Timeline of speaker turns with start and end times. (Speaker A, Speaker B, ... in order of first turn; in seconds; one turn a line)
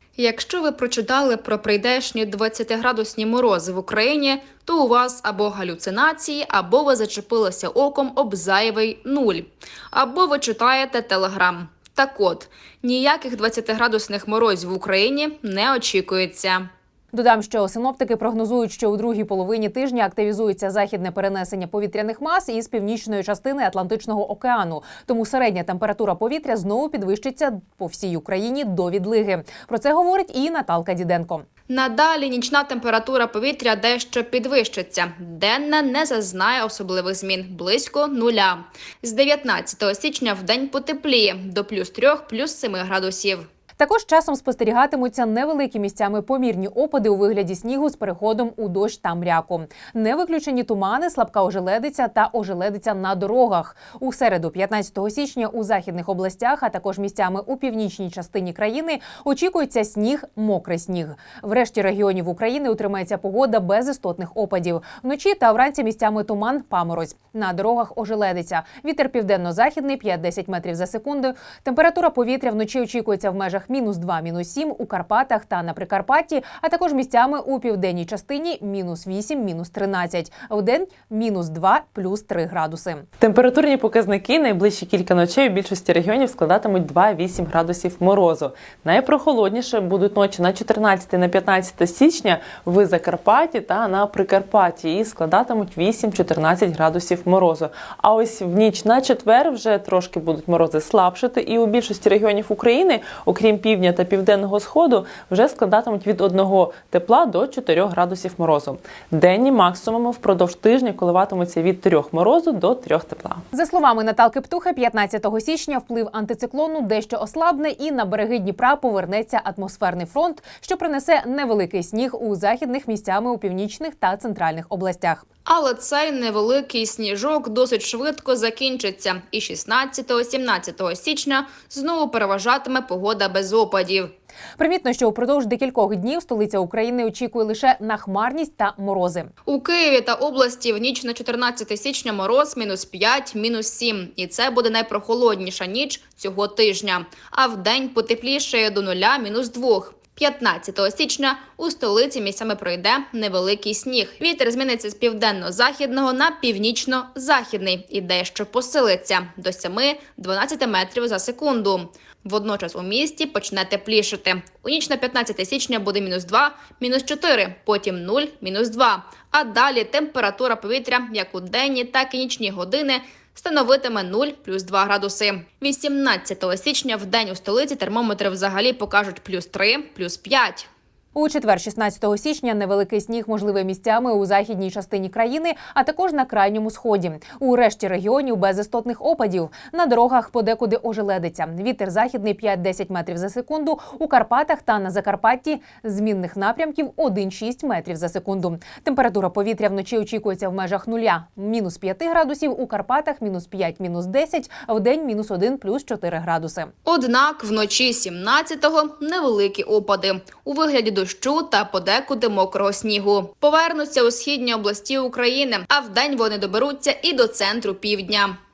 Speaker A: 0.2-16.7
Speaker B: 17.1-31.4
Speaker A: 31.7-43.5
Speaker B: 43.8-83.1
Speaker C: 83.2-113.4
Speaker B: 113.5-125.2
Speaker A: 125.5-134.1
Speaker B: 134.6-139.3
Speaker A: 139.5-180.7
Speaker B: 181.2-206.7
Speaker A: 206.9-218.4